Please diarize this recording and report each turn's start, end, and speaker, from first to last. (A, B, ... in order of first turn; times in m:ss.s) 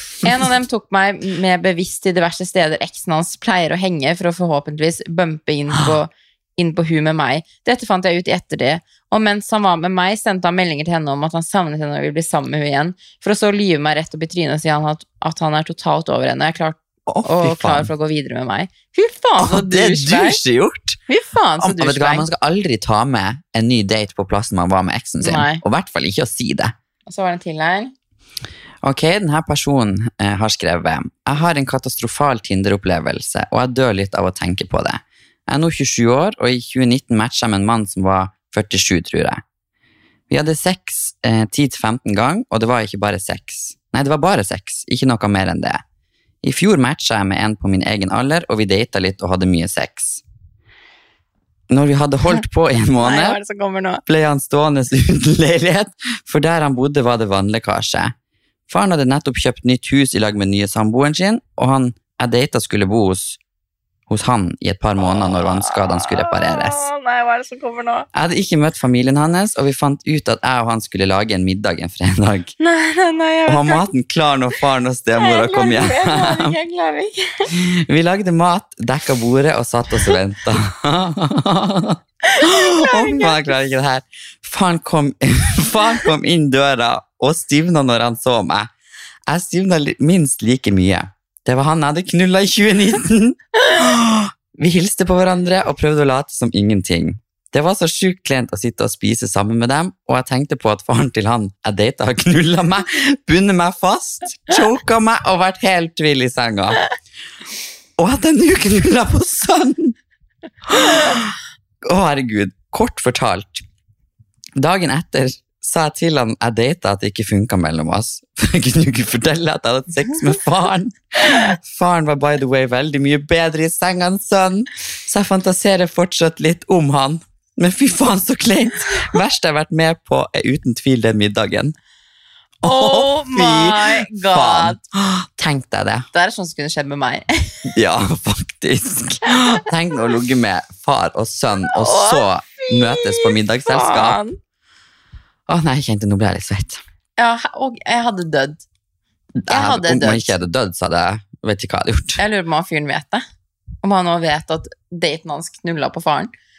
0:00.2-0:20.4 A
0:17.1-0:17.9 B
0:19.4-0:21.0 B
0:21.1-0:22.3 A
0:21.6-0:26.7 B
0:25.2-0:25.6 A
0:27.1-0:27.9 A
0:28.8-0:39.4 B
0:40.3-0:45.8 B
0:46.4-0:50.2 B
0:51.7-0:53.4 B
0:53.0-0:54.0 A
0:54.1-0:58.1 B
0:58.7-1:03.4 B
1:04.1-1:06.9 B
1:05.0-1:08.1 A
1:08.1-1:12.5 B
1:12.6-1:13.8 A
1:13.5-1:16.5 B
1:15.2-1:17.5 A
1:17.5-1:28.7 B
1:22.2-1:23.6 A
1:29.3-1:46.8 B
1:48.0-1:50.0 B
1:50.7-1:53.6 B
1:54.6-2:11.8 B
2:12.6-2:16.1 B
2:12.6-2:14.8 A
2:16.1-2:17.7 A
2:17.7-2:24.2 B
2:19.3-2:19.6 A
2:21.7-2:24.4 A
2:25.5-2:26.8 B
2:27.2-2:28.7 A
2:29.4-2:32.2 B
2:29.5-2:30.3 A
2:32.2-2:33.2 A
2:33.8-2:36.3 A